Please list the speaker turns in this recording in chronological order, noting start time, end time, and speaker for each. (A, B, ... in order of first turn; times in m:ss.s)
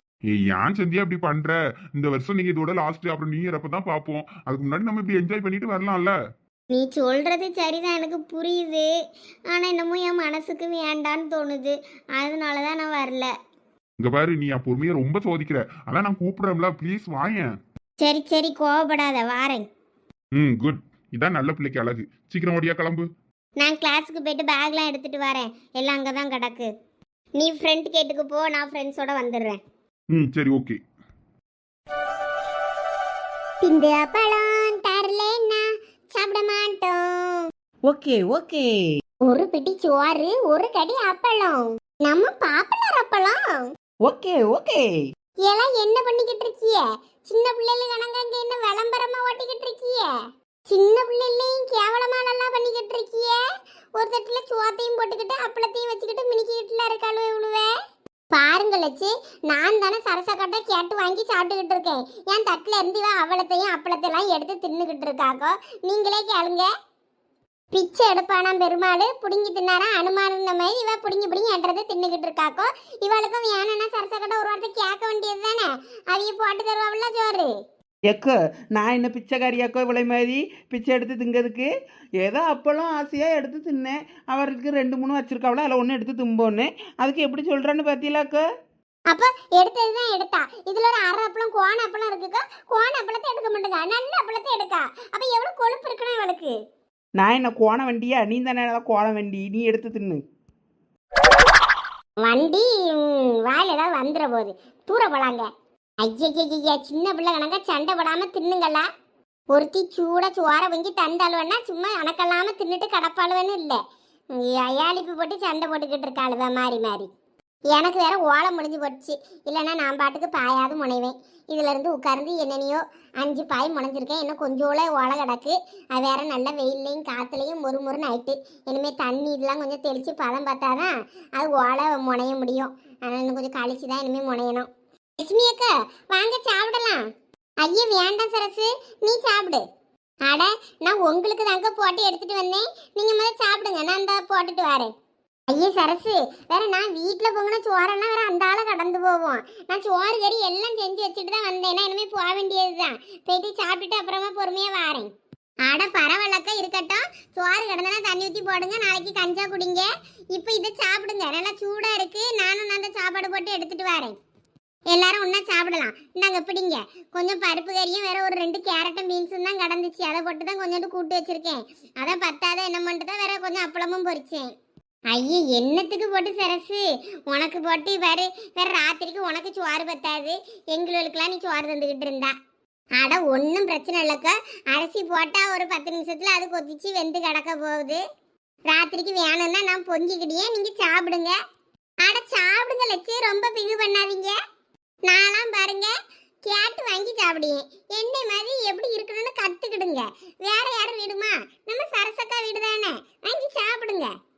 0:00.3-0:06.1 A
0:06.7-0:08.9 B
0:09.5-0:13.3 B
0:14.0-0:17.5 A
0:18.0-0:19.6 B
0:20.4-0:23.1 A
0:23.6-0:26.7 B
0:27.4-0:29.6 B
0:30.1-0:30.8 A
0:33.6-0:37.5 B
0:37.9-0:38.7 C
0:39.2-0:43.6 B
0:44.0-0:44.9 C
0:45.4-0:50.1 B
0:50.7-0:53.4 B
0:54.0-0:57.7 B
0:58.3-1:06.7 B
1:07.7-1:17.5 B
1:18.1-1:21.7 C
1:22.2-1:28.4 C
1:29.1-1:36.5 B
1:37.2-1:40.2 C
1:42.2-1:45.5 B
1:46.0-1:48.8 B
1:49.5-1:53.8 B
1:54.3-1:57.1 B
1:57.7-2:14.7 B
2:15.2-2:17.0 B
2:17.6-2:19.6 B
2:20.2-2:24.9 B
2:25.5-2:35.1 B
2:35.6-2:44.2 B
2:44.9-2:54.5 B
2:55.1-3:02.3 B
3:03.0-3:08.0 B
3:08.7-3:11.4 B
3:12.0-3:14.4 B
3:15.1-3:15.9 B
3:16.4-3:24.1 B